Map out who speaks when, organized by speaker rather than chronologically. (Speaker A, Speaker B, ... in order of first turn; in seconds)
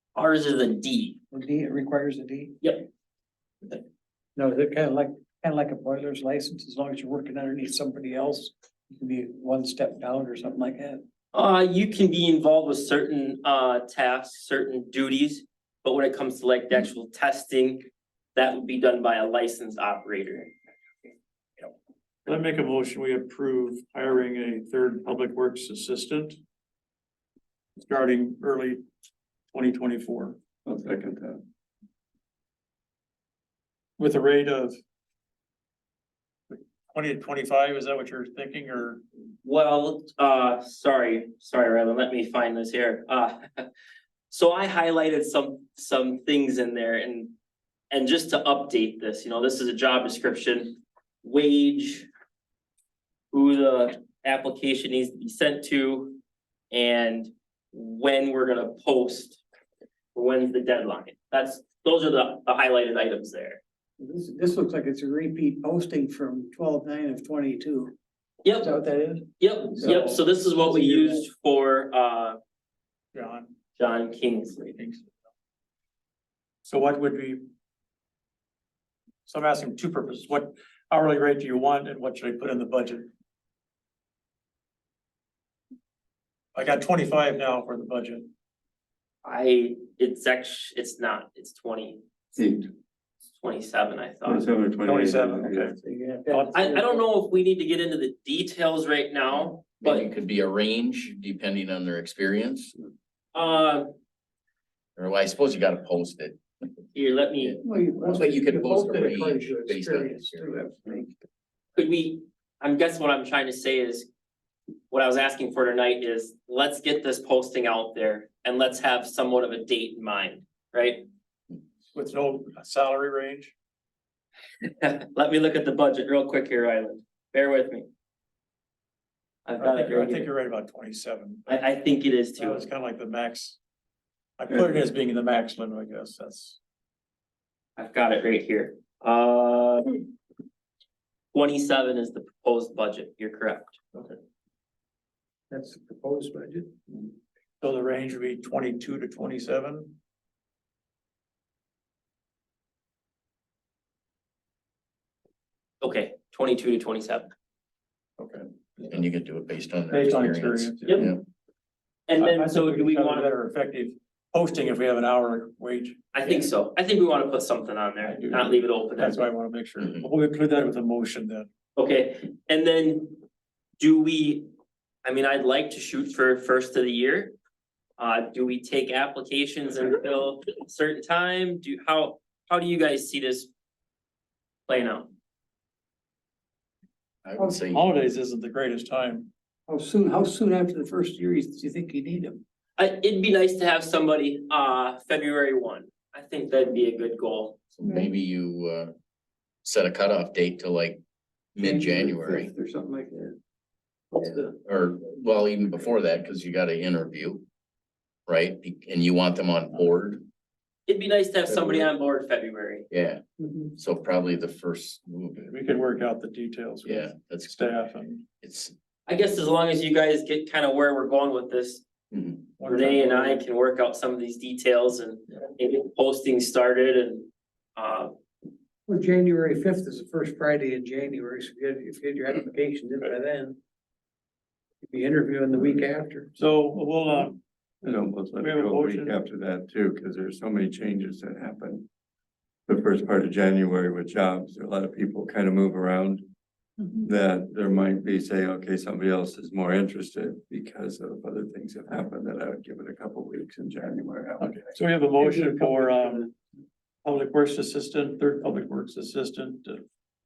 Speaker A: 0.1-1.2, 2.6-2.9, 11.3-20.5, 39.4-43.7, 44.3-47.3, 47.9-52.1, 53.3-56.2, 56.7-59.4, 60.1-63.6, 68.4-68.7, 69.4-72.4, 73.8-74.7, 89.2-92.0, 93.4-94.5, 96.5-100.1, 103.3-103.9, 106.9-107.6, 111.8-114.1, 114.9-121.1, 124.6-127.9, 129.4-130.2, 131.5-132.6, 137.8-140.0, 141.3-143.8, 155.8-157.3, 162.1-163.3, 166.1-169.2, 171.8-173.2, 173.8-174.5, 175.0-177.3, 178.0-183.5, 184.7-185.1, 192.8-197.6, 210.9-212.9, 219.1-221.9, 222.7-228.2
Speaker B: 1.3-2.6, 4.4-11.0, 64.0-67.9, 68.6-70.0, 95.8-97.0, 107.6-111.1, 145.5-146.8, 189.7-192.4, 197.8-198.1, 201.6-203.3, 204.1-204.5, 228.9-233.6, 234.8-236.3, 255.6-256.0
Speaker C: 22.3-26.4, 27.8-28.8, 29.5-30.4, 34.0-34.8, 36.5-39.0, 69.8-70.2, 70.8-71.1, 73.1-73.5, 74.7-75.1, 76.7-77.4, 79.3-83.1, 86.5-88.3, 94.8-95.8, 96.3-96.7, 121.9-123.5, 129.6-131.7, 132.4-133.6, 134.4-136.6, 147.6-150.0, 159.9-161.1, 162.2-166.5, 168.0-171.5, 187.7-189.3, 215.5-218.2, 222.6-223.4, 236.4-237.4, 238.4-239.1, 254.4-256.3, 257.1-259.8
Speaker D: 30.6-31.4, 92.3-92.7, 94.2-95.8, 237.8-241.9, 242.7-246.2, 247.0-254.6
Speaker E: 99.3-102.7, 105.0-106.8, 107.4-110.5, 158.2-161.2, 169.8-170.1, 187.2-187.9, 197.8-198.9, 199.6-201.0, 201.6-202.5, 204.2-207.4, 208.3-210.2, 211.5-211.9, 212.9-213.2, 213.7-215.5, 216.8-217.7, 218.4-218.7, 222.1-222.5